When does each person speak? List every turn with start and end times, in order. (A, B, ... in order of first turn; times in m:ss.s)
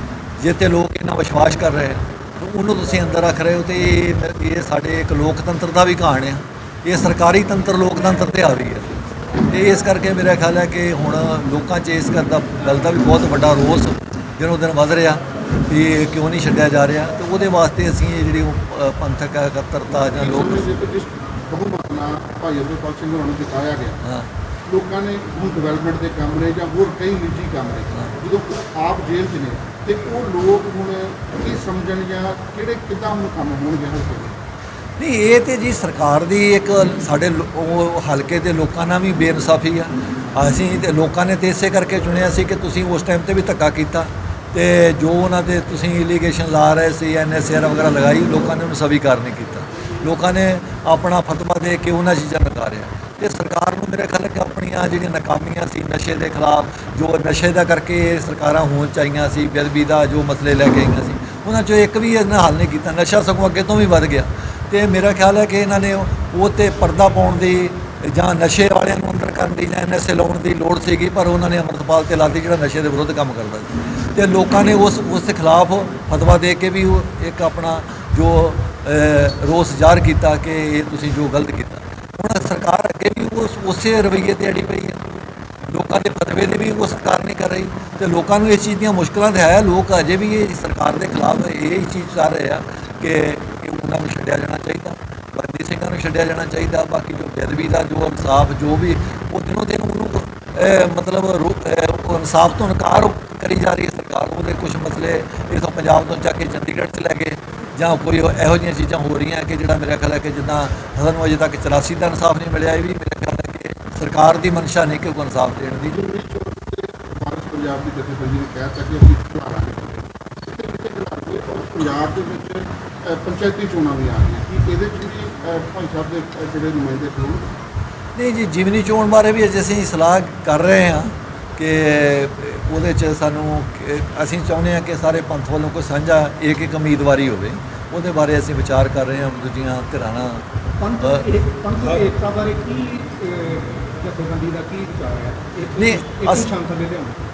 0:00.4-0:20.7 A
0:20.1-0:24.0 B
0:24.0-0:24.3 A
0:24.6-0:34.3 B
0:35.0-1:56.0 A
1:55.9-2:07.4 B
2:08.1-2:20.5 A
2:20.8-2:27.2 C
2:21.0-2:21.3 A
2:25.8-2:26.5 A